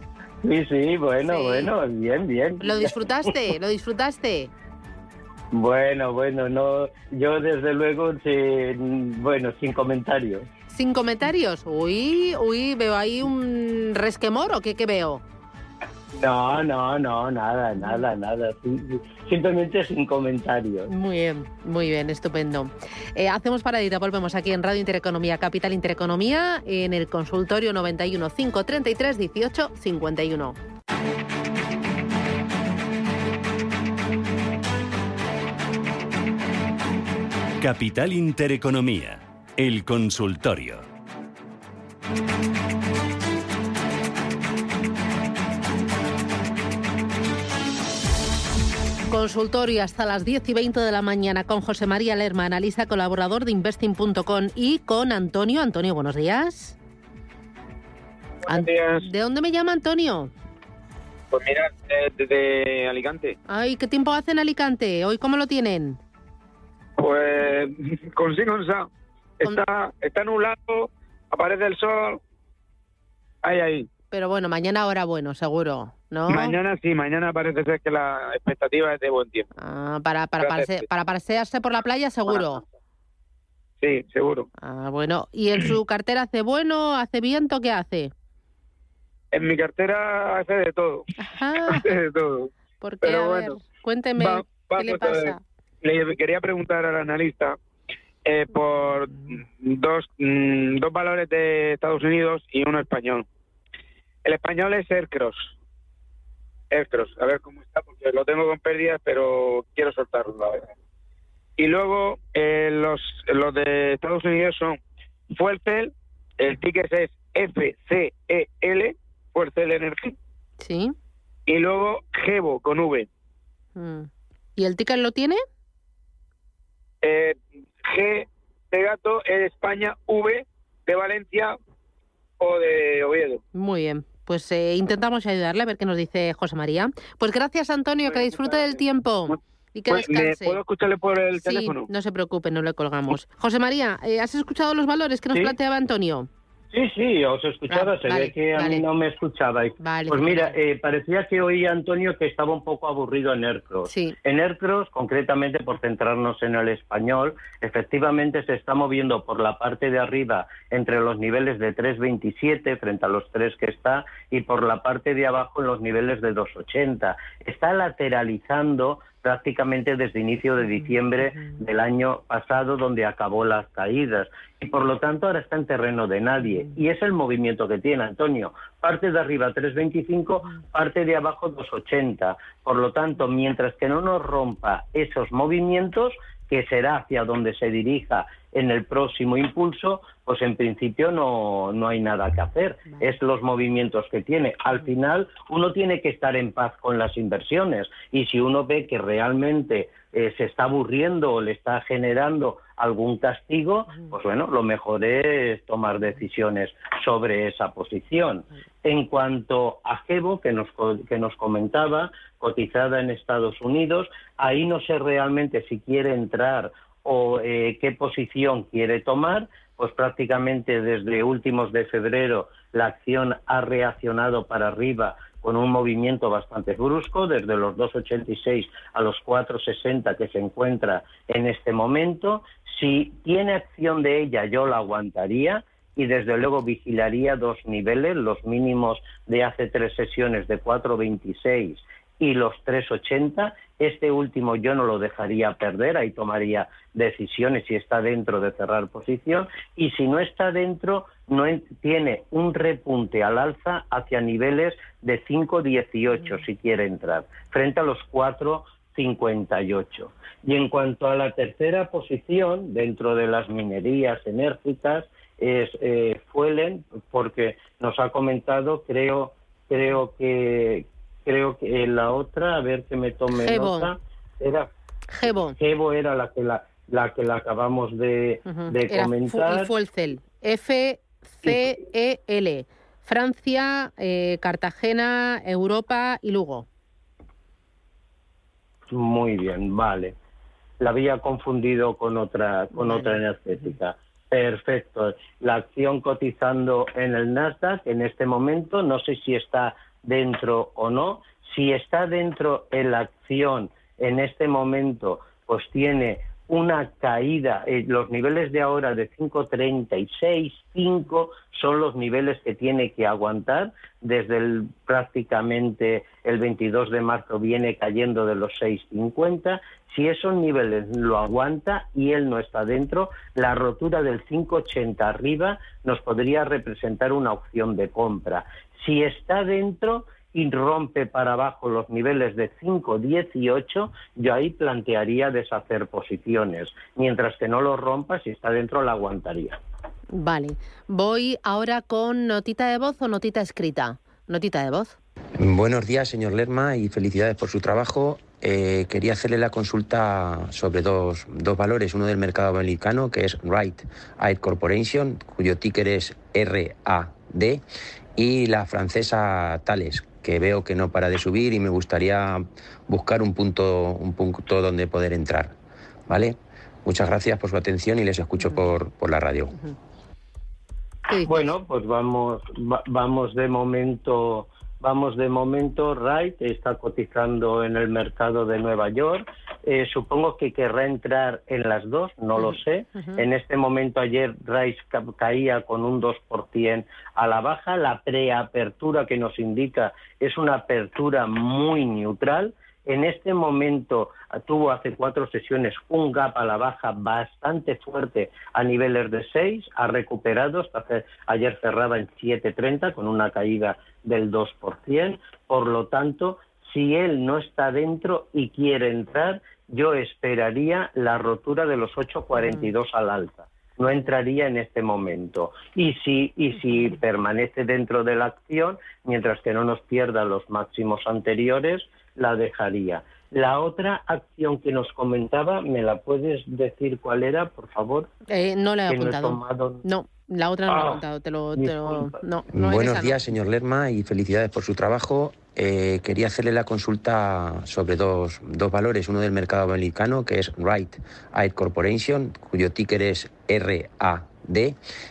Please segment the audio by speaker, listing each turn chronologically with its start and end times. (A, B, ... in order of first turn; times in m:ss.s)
0:00.4-0:02.8 A
0:01.2-0:01.7 B
0:02.6-0:04.5 B
0:05.5-0:10.5 A
0:10.7-0:15.2 B
0:16.1-0:20.9 A
0:17.8-0:18.0 B
0:20.9-0:30.6 B
0:37.6-0:40.8 C
0:49.1-0:56.8 B
0:58.4-0:59.1 D
0:58.5-1:00.3 B
1:01.3-1:03.4 D
1:03.5-1:06.0 B
1:07.0-1:08.9 D
1:09.4-1:12.2 D
1:13.4-1:13.9 D
1:14.1-1:16.5 B
1:16.3-1:19.5 D
1:19.6-1:22.6 B
1:20.4-1:20.8 D
1:22.3-1:22.5 D
1:23.8-1:24.5 D
1:24.6-1:28.1 B
1:29.3-1:31.1 D
1:31.2-1:31.9 B
1:31.7-1:32.5 D
1:32.8-1:35.4 B
1:33.0-1:33.6 D
1:34.2-1:37.6 D
1:38.2-1:43.2 D
1:44.2-1:45.5 D
1:46.7-1:50.7 D
1:51.6-1:54.8 D
1:55.3-2:00.2 D
2:00.6-2:00.9 B
2:01.5-2:03.1 D
2:03.8-2:05.4 B
2:07.0-2:11.5 D
2:12.4-2:13.4 D
2:13.5-2:20.6 B
2:18.1-2:18.8 D
2:19.9-2:21.9 D
2:21.3-2:26.3 B
2:26.7-4:34.7 A
2:27.7-2:28.8 B
2:29.8-2:30.5 B
2:33.9-2:34.2 B
4:33.3-4:33.9 B
4:35.1-4:35.6 B
4:35.3-4:39.7 A
4:38.4-4:46.6 B
4:48.9-4:50.2 A
4:50.8-5:39.6 A
4:52.8-4:53.2 B
5:40.2-5:45.0 B
5:45.3-5:57.6 E
5:58.2-6:05.5 E
6:06.1-6:09.5 E
6:11.1-6:11.4 B
6:11.2-7:08.1 A
6:22.4-6:23.2 B
7:08.3-7:13.2 B
7:08.9-7:09.8 A
7:10.7-7:11.0 A
7:11.6-7:12.1 A
7:12.5-7:24.8 E